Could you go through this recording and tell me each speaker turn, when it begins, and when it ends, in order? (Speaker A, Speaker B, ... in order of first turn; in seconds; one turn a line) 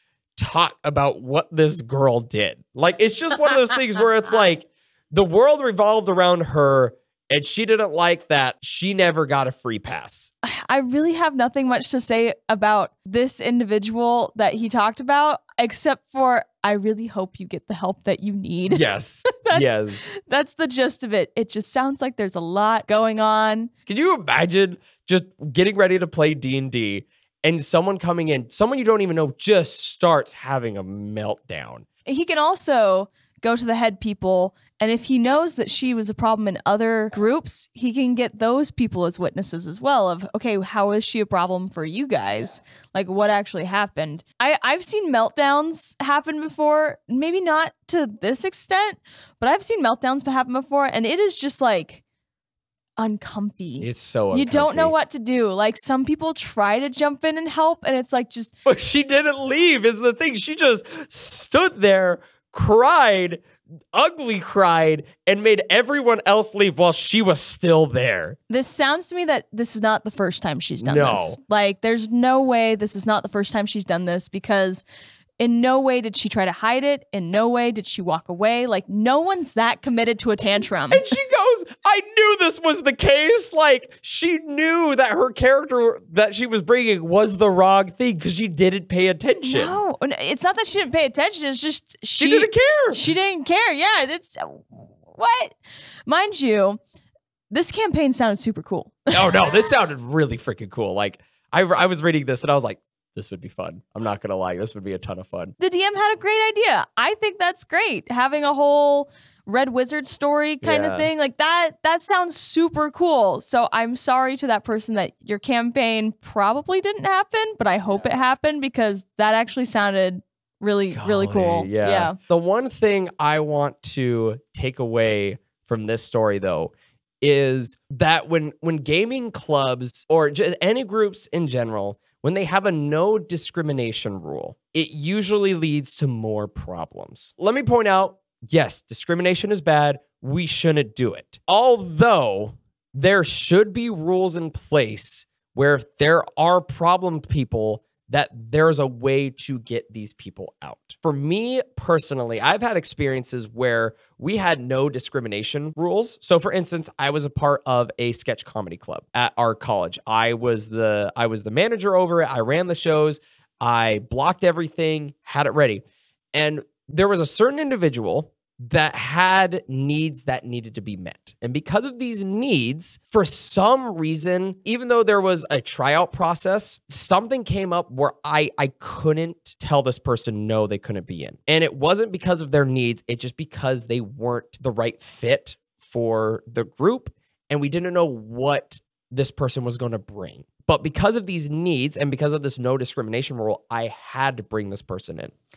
Speaker A: 0.4-10.3
Speaker B: 10.4-23.7
Speaker A: 18.7-20.1
Speaker A: 23.9-31.9
Speaker B: 32.1-52.0
Speaker B: 53.0-58.5
Speaker A: 53.8-54.9
Speaker A: 58.7-68.4
Speaker B: 68.5-74.8
Speaker A: 70.8-71.4
Speaker B: 75.4-81.2
Speaker A: 80.9-89.7
Speaker B: 89.5-96.8
Speaker A: 92.2-93.1
Speaker B: 97.5-99.3
Speaker A: 99.1-105.5
Speaker B: 105.6-122.2
Speaker A: 110.6-111.1
Speaker A: 120.9-165.8
Speaker A: 166.3-195.3